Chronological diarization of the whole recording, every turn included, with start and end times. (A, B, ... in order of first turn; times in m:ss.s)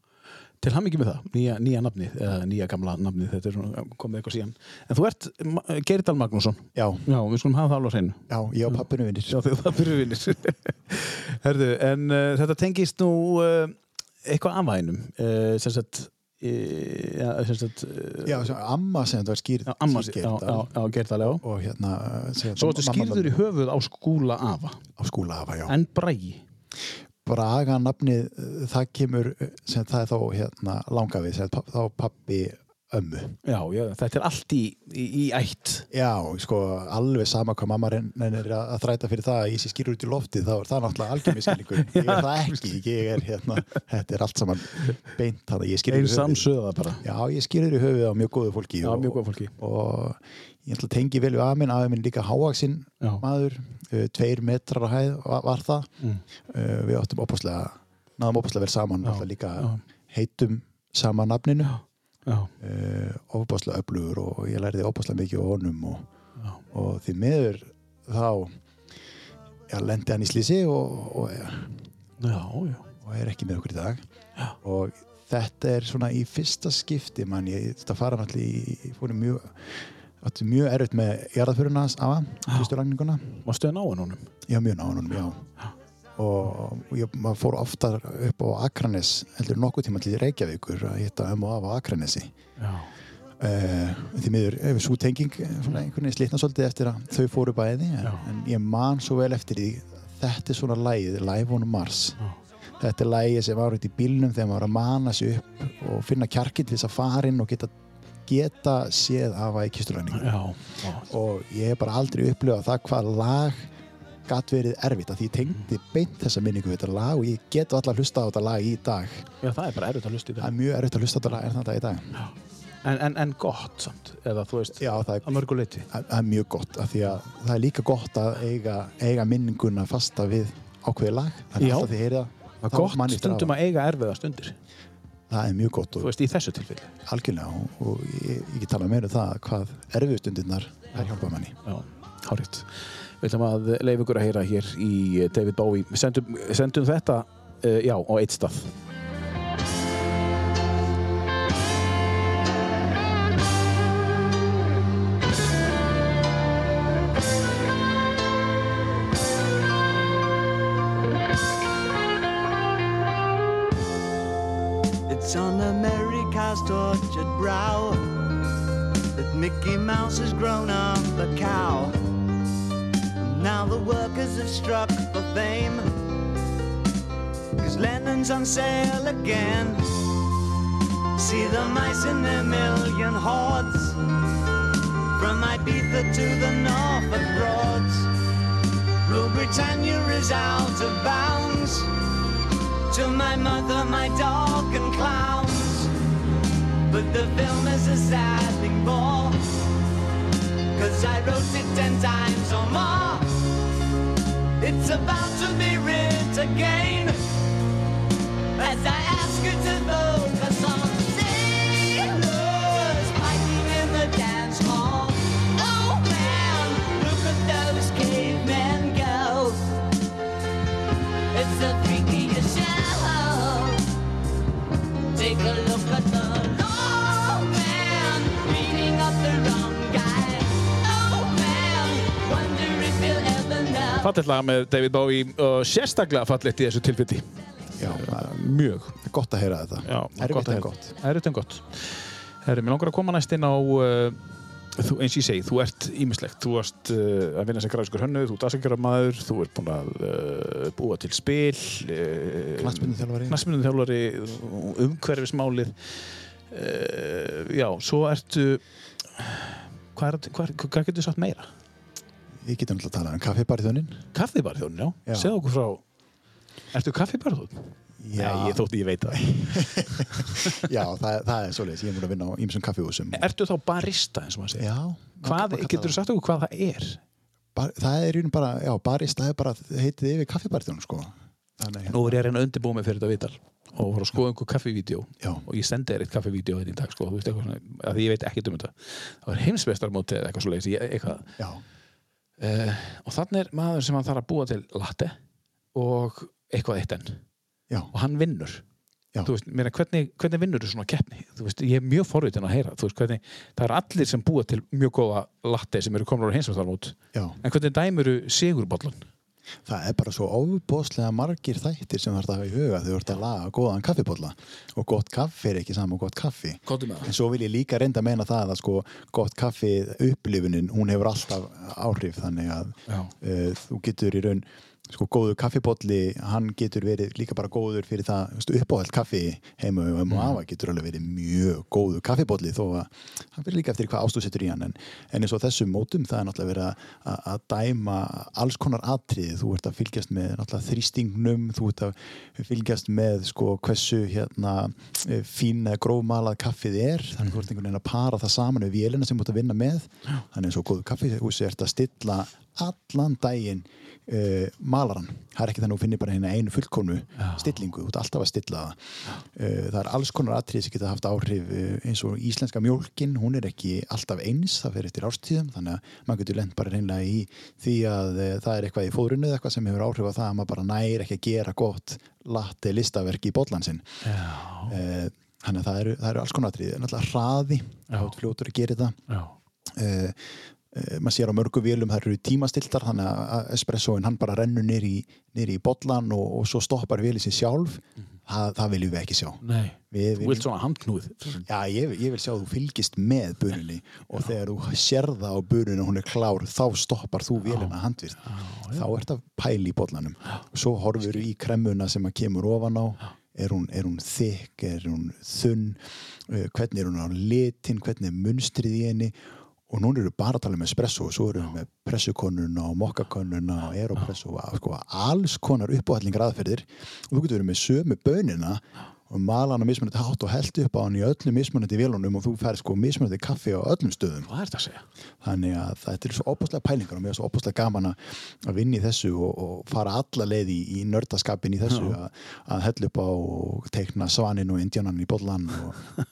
0:00.6-0:08.8 A
0:06.8-0:07.0 B
0:08.3-0:09.4 B
0:09.3-0:18.5 A
0:18.2-0:20.7 B
0:19.7-0:21.4 A
0:21.2-0:23.4 B
0:22.6-0:24.8 A
0:25.0-0:25.8 B
0:25.7-0:26.4 A
0:27.2-0:33.4 B
0:33.4-0:35.9 A
0:35.9-0:46.5 B
0:41.9-0:42.6 A
0:45.9-0:47.0 A
0:47.0-0:55.9 B
0:48.8-0:49.6 A
0:56.5-1:01.8 B
0:59.0-0:59.8 A
1:01.6-1:02.5 A
1:02.6-1:06.1 B
1:06.7-1:08.5 B
1:09.7-1:11.9 B
1:12.2-1:12.8 A
1:13.0-1:14.0 B
1:14.6-1:23.4 B
1:23.4-1:24.3 A
1:24.5-1:25.4 B
1:26.2-1:32.4 B
1:32.6-1:32.9 A
1:33.4-1:42.2 B
1:42.8-1:47.7 B
1:48.3-1:50.4 B
1:50.1-1:51.1 A
1:51.1-1:53.7 B
1:54.3-1:59.3 B
1:59.4-2:00.5 A
2:00.4-2:02.2 B
2:02.8-2:05.9 A
2:04.8-2:13.6 B
2:11.6-2:11.9 A
2:12.6-2:14.6 A
2:15.3-2:16.1 B
2:16.0-2:16.9 A
2:17.0-2:21.6 B
2:21.6-2:28.7 A
2:45.1-2:48.2 C
2:49.2-2:52.0 C
2:53.2-2:55.9 C
2:57.6-3:00.0 C
3:01.2-3:04.0 C
3:05.2-3:08.1 C
3:09.0-3:11.9 C
3:12.9-3:15.9 C
3:16.9-3:19.4 C
3:20.7-3:23.4 C
3:24.6-3:27.2 C
3:28.6-3:39.7 C
3:41.3-3:43.9 C
3:45.1-3:54.1 C
3:54.0-3:59.0 A
3:57.8-3:58.4 B
3:59.0-4:00.9 B
3:59.8-4:04.2 A
4:04.8-4:18.6 A
4:12.6-4:13.4 B
4:19.2-4:21.5 A
4:22.4-4:24.0 B
4:24.1-4:25.8 A
4:25.1-4:25.3 B
4:26.7-4:30.6 A
4:28.0-4:28.6 B
4:29.1-4:33.3 B
4:33.1-4:34.7 A
4:34.6-4:36.0 B
4:35.2-4:37.0 A
4:37.6-4:42.2 B
4:41.9-4:51.3 A
4:51.4-4:51.6 B
4:52.4-4:55.2 A
4:55.7-4:57.2 A
4:57.9-4:58.6 A
4:59.2-5:09.1 A
5:09.7-6:13.9 B
5:16.7-5:17.1 A
5:30.1-5:30.4 A
5:57.2-5:57.5 A
6:14.0-6:14.8 A
6:14.7-6:19.0 B
6:19.1-6:19.3 A
6:19.7-6:30.5 B
6:29.4-6:31.4 A
6:31.4-6:49.2 B
6:37.5-6:37.7 A
6:38.2-6:38.9 A
6:49.7-7:04.3 B
7:04.3-7:04.8 A
7:05.2-7:15.8 B